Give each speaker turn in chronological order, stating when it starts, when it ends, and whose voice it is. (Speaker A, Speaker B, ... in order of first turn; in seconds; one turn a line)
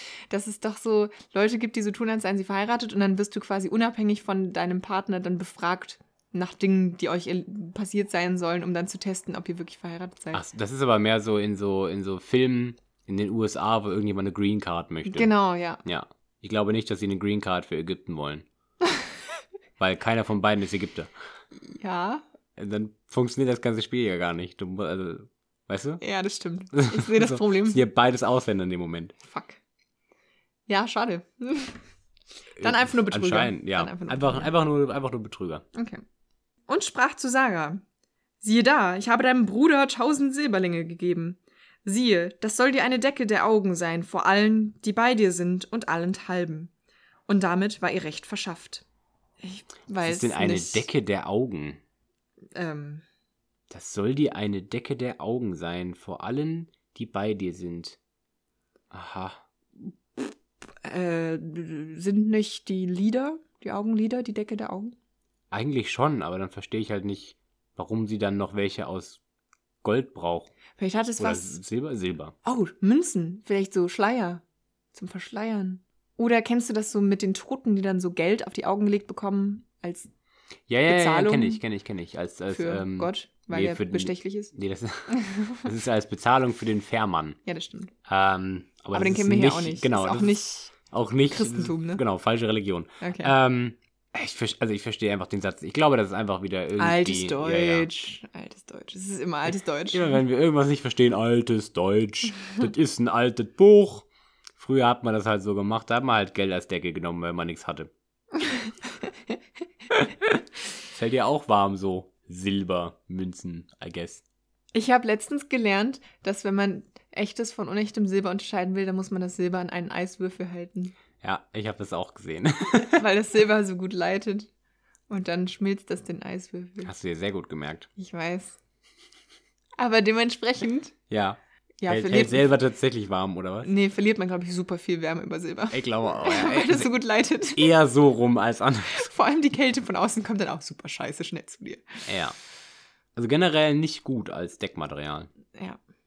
Speaker A: 0.3-10.4
Speaker B: 10.3-15.3
Speaker A: 15.1-15.8
Speaker B: 15.8-18.4
Speaker B: 19.8-21.1
Speaker A: 21.6-22.2
Speaker B: 22.6-26.0
Speaker A: 26.0-27.8
Speaker B: 26.7-29.1
Speaker A: 29.2-29.6
Speaker A: 30.7-31.8
Speaker B: 32.6-35.6
Speaker A: 32.6-34.5
Speaker A: 35.7-36.0
Speaker A: 36.7-37.8
Speaker A: 38.4-46.7
Speaker A: 47.3-48.9
Speaker A: 49.4-50.9
Speaker B: 50.0-51.8
Speaker A: 52.5-53.0
Speaker B: 53.7-58.0
Speaker B: 58.9-59.4
Speaker A: 60.8-65.0
Speaker B: 65.5-69.2
Speaker B: 69.8-70.5
Speaker A: 70.8-71.5
Speaker B: 71.2-72.3
Speaker A: 72.4-74.4
Speaker A: 74.9-80.1
Speaker B: 80.7-87.4
Speaker A: 80.9-81.6
Speaker A: 82.5-84.5
Speaker A: 85.1-85.6
Speaker A: 87.5-87.9
Speaker B: 88.1-98.1
Speaker A: 88.9-90.7
Speaker A: 91.3-92.0
Speaker A: 93.0-93.3
Speaker A: 96.8-100.2
Speaker B: 99.9-104.1
Speaker B: 104.6-107.9
Speaker B: 110.9-114.2
Speaker A: 114.7-120.9
Speaker B: 121.2-123.0
Speaker A: 123.0-124.5
Speaker A: 125.1-126.9
Speaker B: 126.8-127.9
Speaker A: 128.0-128.6
Speaker A: 129.8-130.9
Speaker B: 131.1-133.7
Speaker A: 131.8-132.4
Speaker A: 133.6-137.7
Speaker B: 135.7-136.9
Speaker B: 137.5-139.1
Speaker A: 138.9-142.1
Speaker B: 142.1-142.4
Speaker B: 143.2-145.3
Speaker A: 145.6-145.8